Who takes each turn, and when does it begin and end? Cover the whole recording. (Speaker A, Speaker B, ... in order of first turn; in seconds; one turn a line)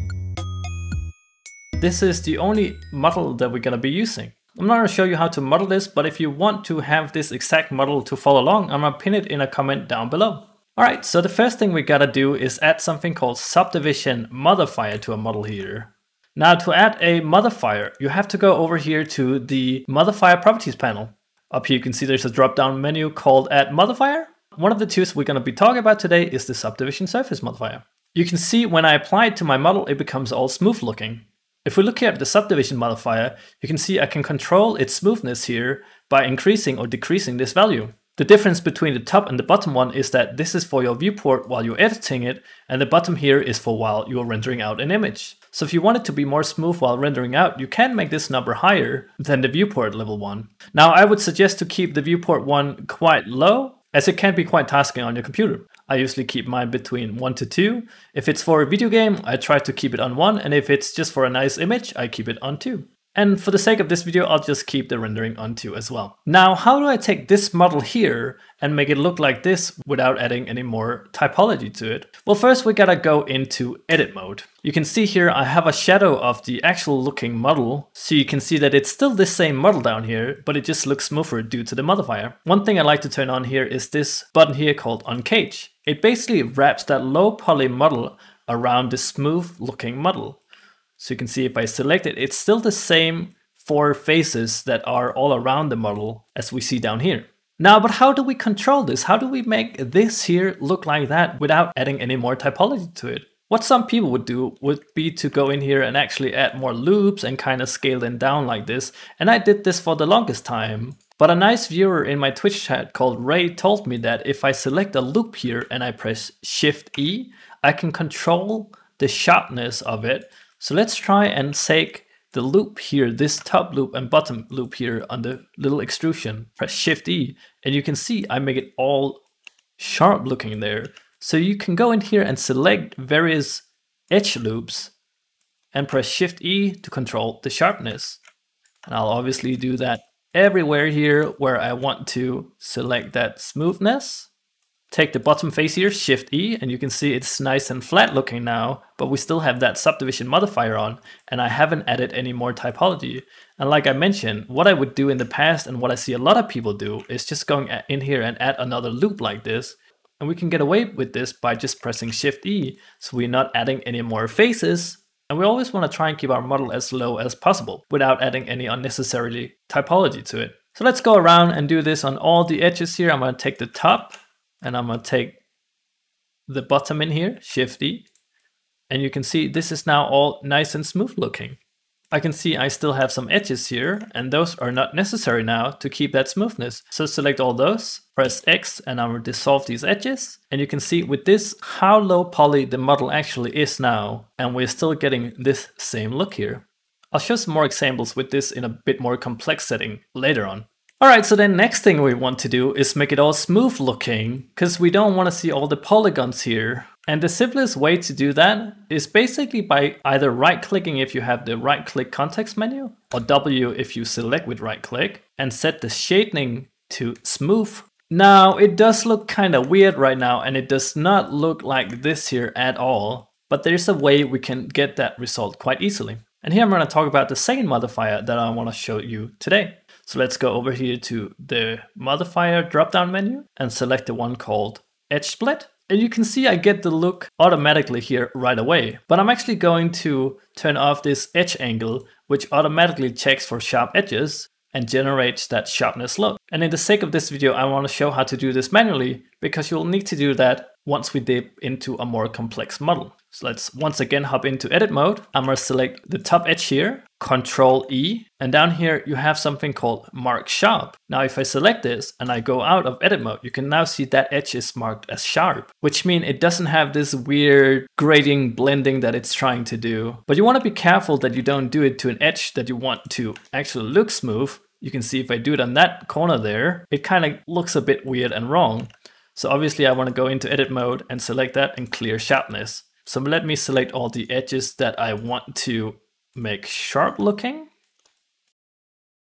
Speaker A: 1.8-90.4
Speaker A: 91.0-129.2
Speaker A: 129.8-134.9
Speaker A: 135.7-138.2
Speaker A: 138.9-144.3
Speaker A: 144.9-175.4
Speaker A: 176.5-178.1
Speaker A: 178.9-181.6
Speaker A: 182.1-287.7